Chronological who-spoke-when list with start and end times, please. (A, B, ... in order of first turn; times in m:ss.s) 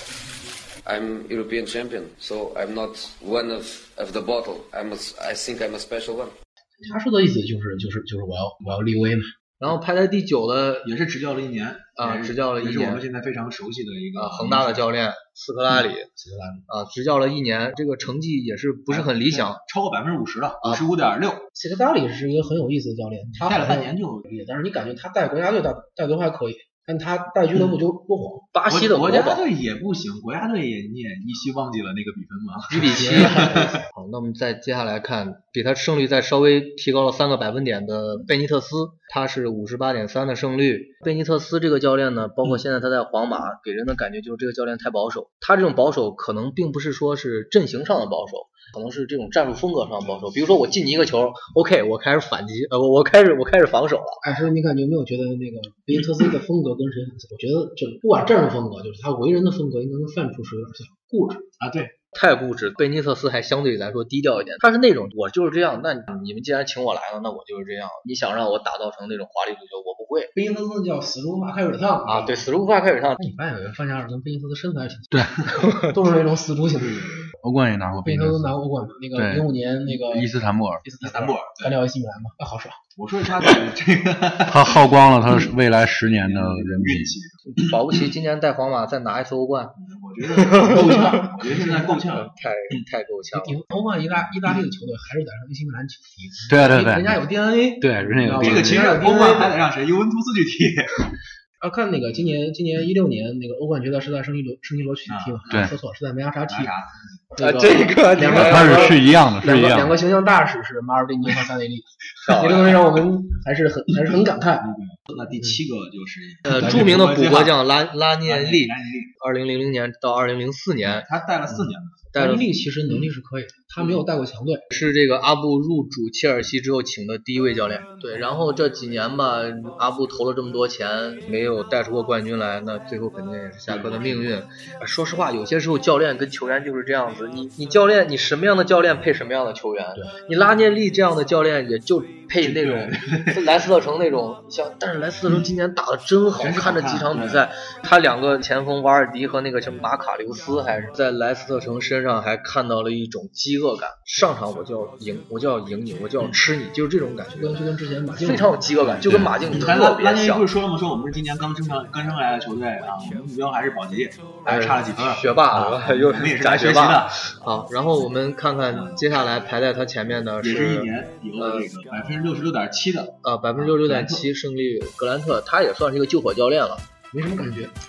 0:00.8-0:06.4 A
0:06.8-0:09.3 B
0:09.6-0:10.9 C
0:10.8-0:14.9 D
0:12.0-0:13.0 C
0:14.2-0:16.1 C
0:16.2-0:16.7 B
0:16.7-0:19.6 C
0:18.9-0:21.5 D
0:21.6-0:28.4 B
0:23.4-0:24.3 D
0:28.5-0:29.5 C
0:28.7-0:33.8 D
0:32.7-0:54.2 C
0:32.7-0:33.8 B
0:54.2-1:01.4 B
1:01.6-1:01.9 D
1:02.1-1:10.3 C
1:10.4-1:12.5 B
1:12.1-1:13.2 C
1:13.2-1:15.3 B
1:15.1-1:15.4 E
1:15.5-1:15.9 C
1:15.8-1:17.2 B
1:16.8-1:17.2 D
1:17.4-1:18.6 E
1:18.0-1:22.8 B
1:19.2-1:20.8 E
1:21.0-1:21.8 D
1:23.0-1:24.8 D
1:24.5-1:27.2 E
1:26.1-1:28.0 D
1:27.5-1:29.8 C
1:29.8-1:32.3 D
1:30.4-1:33.6 C
1:33.3-1:39.6 B
1:36.5-1:37.2 E
1:37.8-1:38.9 E
1:38.3-1:41.1 D
1:41.6-1:46.7 B
1:45.1-1:45.7 D
1:46.5-1:47.1 D
1:47.4-1:54.7 B
1:47.4-1:49.0 C
1:48.3-1:50.0 E
1:52.2-1:52.7 C
1:54.6-1:57.6 D
1:56.5-2:01.1 C
1:58.2-1:59.1 D
2:00.8-2:02.0 D
2:02.1-2:02.5 C
2:02.2-2:04.6 B
2:04.7-2:37.6 C
2:13.7-2:14.4 D
2:22.4-2:23.4 D
2:26.4-2:27.5 D
2:37.3-2:38.6 B
2:38.2-2:40.4 C
2:38.8-2:47.2 D
2:44.5-2:51.7 C
2:48.7-2:49.3 D
2:50.4-2:54.2 D
2:53.2-2:56.8 C
2:57.1-2:57.7 B